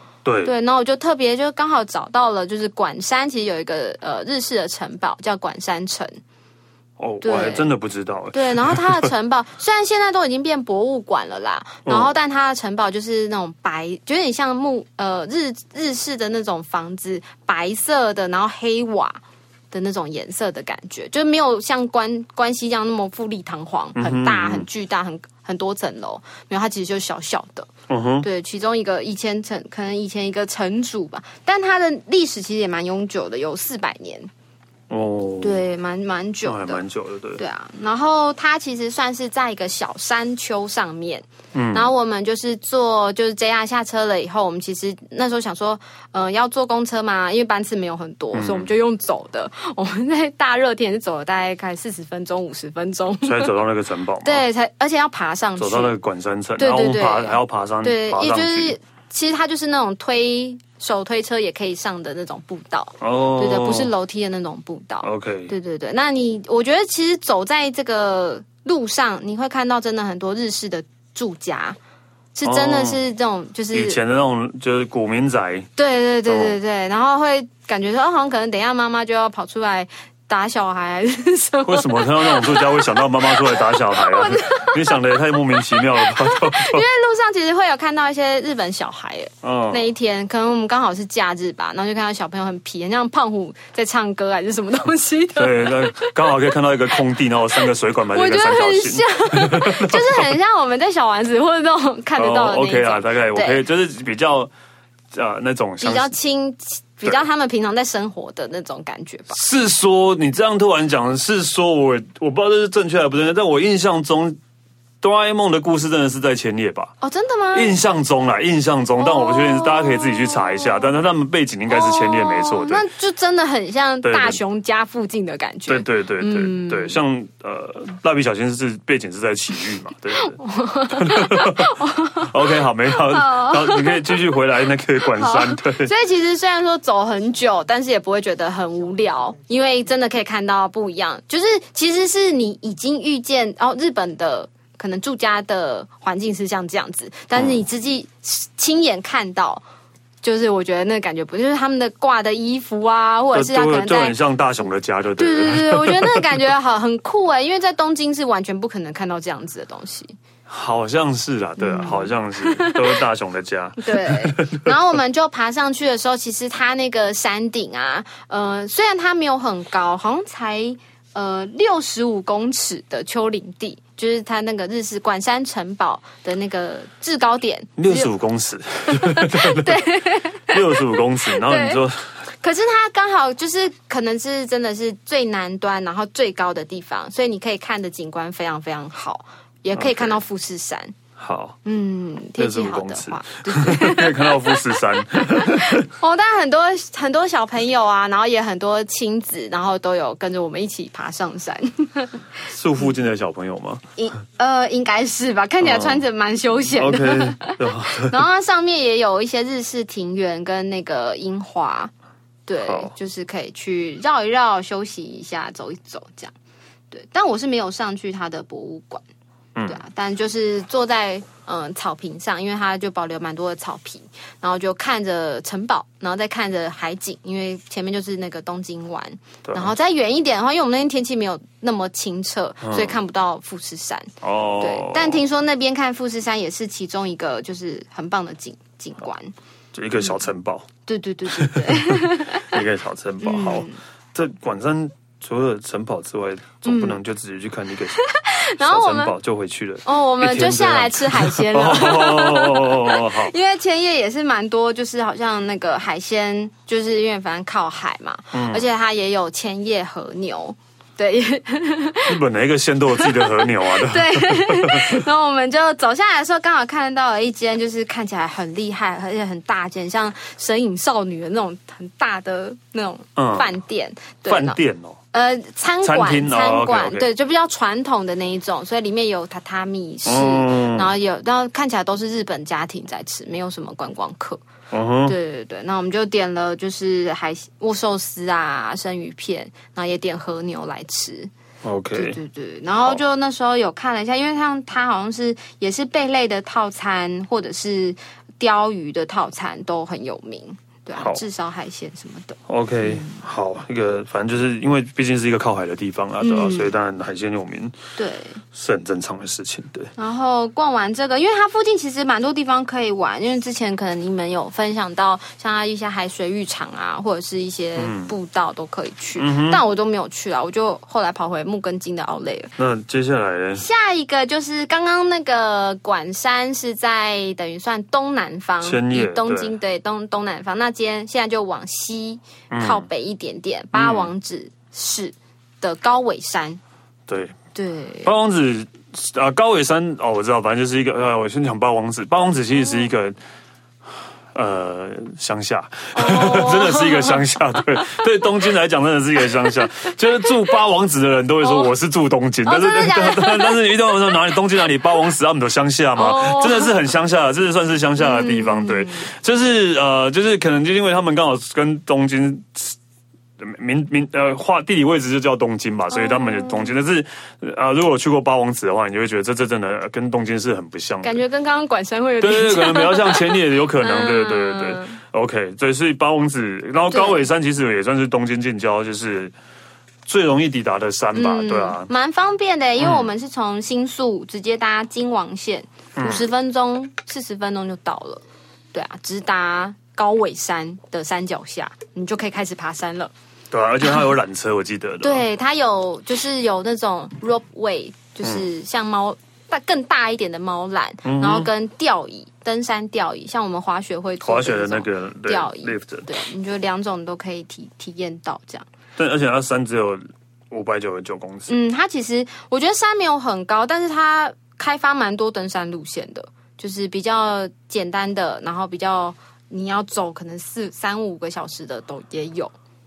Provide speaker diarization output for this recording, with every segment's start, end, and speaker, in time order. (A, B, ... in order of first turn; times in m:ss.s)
0:00.2-0:00.5 A
0:00.4-0:06.2 B
0:07.0-0:09.1 A
0:07.2-0:07.7 B
0:08.3-0:19.2 B
0:11.8-0:12.1 A
0:19.7-0:27.7 B
0:23.9-0:24.7 A
0:27.9-0:28.2 A
0:28.2-0:34.3 B
0:34.9-0:35.6 A
0:35.4-0:36.8 B
0:36.4-0:37.4 A
0:37.4-0:53.5 B
0:41.5-0:41.9 A
0:48.3-0:48.7 A
0:53.2-0:54.4 A
0:54.2-0:56.0 B
0:55.6-0:58.8 A
0:56.6-1:11.8 B
1:03.0-1:03.9 A
1:05.0-1:05.5 A
1:12.3-1:14.0 B
1:12.4-1:13.0 A
1:13.7-1:15.7 A
1:15.8-1:36.2 B
1:16.2-1:16.6 A
1:21.6-1:26.8 A
1:29.4-1:29.9 A
1:35.4-1:40.4 A
1:38.1-1:43.6 B
1:42.2-1:44.5 A
1:45.1-1:46.1 A
1:45.8-1:49.4 B
1:49.3-1:54.4 A
1:55.0-1:56.9 A
1:57.0-1:57.8 B
1:57.5-2:02.8 A
1:59.0-2:00.9 B
2:01.7-2:07.0 B
2:04.0-2:04.4 A
2:05.7-2:15.9 A
2:10.2-2:14.3 B
2:15.0-2:29.6 B
2:27.3-2:27.6 A
2:30.2-2:34.2 B
2:33.3-2:36.4 A
2:35.2-2:40.1 B
2:40.5-2:44.7 A
2:41.6-2:43.0 B
2:43.8-2:58.1 B
2:57.8-2:59.8 A
2:58.8-3:01.8 B
3:00.5-3:02.2 A
3:02.4-3:11.0 B
3:09.7-3:10.2 A
3:11.2-3:11.6 A
3:11.6-3:22.2 B
3:12.4-3:15.8 A
3:22.5-3:23.8 A
3:24.0-3:31.9 B
3:25.6-3:26.0 A
3:26.7-3:28.2 A
3:32.5-3:36.3 B
3:32.6-3:32.9 A
3:36.9-3:39.0 B
3:39.6-3:39.8 A
3:39.6-3:54.1 B
3:49.4-3:49.7 A
3:52.6-3:53.0 A
3:54.2-3:55.2 A
3:54.6-3:59.3 B
3:59.7-4:00.7 A
4:00.8-4:02.6 B
4:01.3-4:08.0 A
4:03.2-4:03.8 B
4:06.6-4:07.0 B
4:08.0-4:09.1 B
4:08.6-4:13.3 A
4:09.8-4:22.2 B
4:18.3-4:18.6 A
4:22.1-4:25.0 A
4:22.9-4:34.6 B
4:33.2-4:33.5 A
4:34.3-4:35.0 A
4:35.1-4:44.4 B
4:35.8-4:37.1 A
4:40.0-4:40.9 A
4:44.7-4:45.2 A
4:45.0-4:51.3 B
4:51.6-4:52.2 A
4:51.9-5:03.2 B
5:01.0-5:01.2 A
5:02.5-5:07.8 A
5:06.2-5:06.7 B
5:08.0-5:08.4 B
5:08.5-5:09.9 A
5:10.0-5:22.5 B
5:17.8-5:18.1 A
5:19.2-5:19.6 A
5:22.6-5:23.6 A
5:23.6-5:36.6 B
5:28.6-5:29.5 A
5:32.5-5:32.9 A
5:33.7-5:34.1 A
5:37.1-5:37.4 A
5:37.5-5:38.1 B
5:38.0-5:43.2 A
5:44.3-6:02.8 A
5:45.9-5:47.2 B
5:51.4-5:51.7 B
5:52.4-5:54.1 B
5:56.0-5:56.7 B
5:58.0-5:59.1 B
6:03.4-6:11.2 A
6:05.9-6:06.7 B
6:11.0-6:15.0 B
6:12.2-6:19.3 A
6:16.9-6:17.3 B
6:20.0-6:21.9 A
6:21.1-6:28.2 B
6:22.8-6:23.1 A
6:26.0-6:26.3 A
6:28.7-6:33.1 B
6:33.5-6:35.2 A
6:35.0-6:48.6 B
6:41.0-6:41.5 A
6:44.2-6:46.1 A
6:49.0-6:51.5 A
6:51.5-7:02.5 B